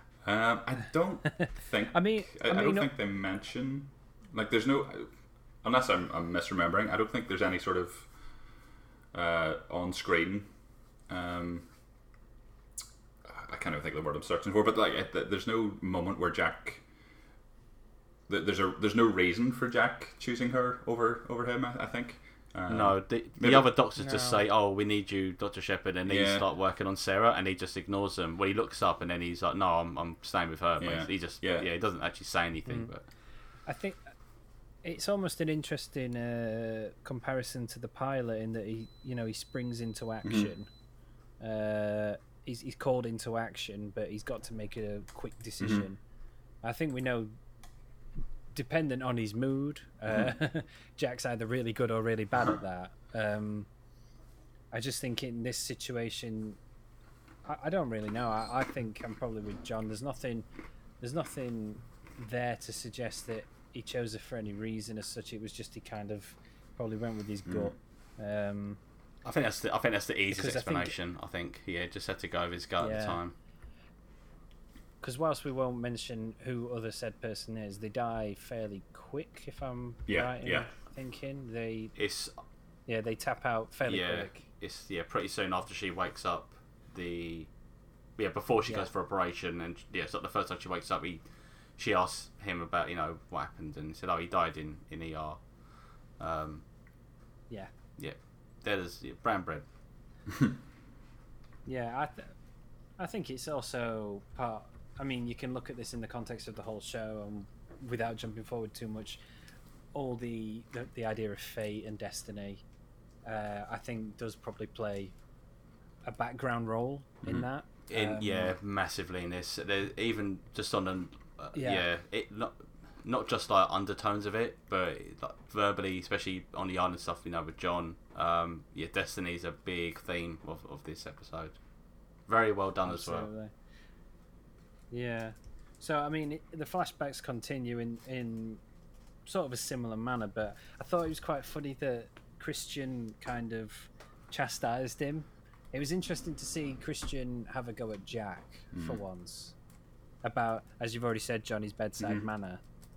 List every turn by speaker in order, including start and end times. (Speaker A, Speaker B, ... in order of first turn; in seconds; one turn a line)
Speaker A: 0.2-5.1
Speaker B: 1.3-2.9
Speaker A: 5.6-8.1
Speaker A: 9.1-10.5
Speaker A: 11.1-11.7
Speaker A: 13.2-16.8
Speaker A: 18.3-23.7
Speaker C: 22.7-33.0
Speaker B: 24.0-24.4
Speaker A: 26.1-26.4
Speaker A: 30.8-31.7
Speaker B: 33.7-34.0
Speaker B: 34.8-40.7
Speaker B: 41.4-46.0
Speaker B: 46.6-47.3
Speaker B: 48.5-53.7
Speaker B: 54.7-56.6
Speaker B: 57.5-60.5
Speaker B: 61.0-68.8
Speaker A: 67.5-67.7
Speaker C: 69.2-73.3
Speaker B: 70.3-70.9
Speaker B: 72.8-73.2
Speaker B: 75.0-81.9
Speaker A: 80.1-80.7
Speaker C: 82.0-82.3
Speaker B: 82.9-84.5
Speaker C: 83.8-87.5
Speaker C: 88.2-91.2
Speaker C: 91.8-96.6
Speaker C: 98.0-99.7
Speaker B: 101.7-102.4
Speaker B: 103.0-109.2
Speaker B: 109.9-112.6
Speaker B: 113.2-115.2
Speaker B: 116.0-118.5
Speaker C: 117.9-131.6
Speaker B: 121.5-121.9
Speaker C: 132.2-133.3
Speaker B: 132.8-133.5
Speaker B: 134.9-138.6
Speaker B: 139.3-149.6
Speaker A: 148.7-149.0
Speaker B: 150.2-152.6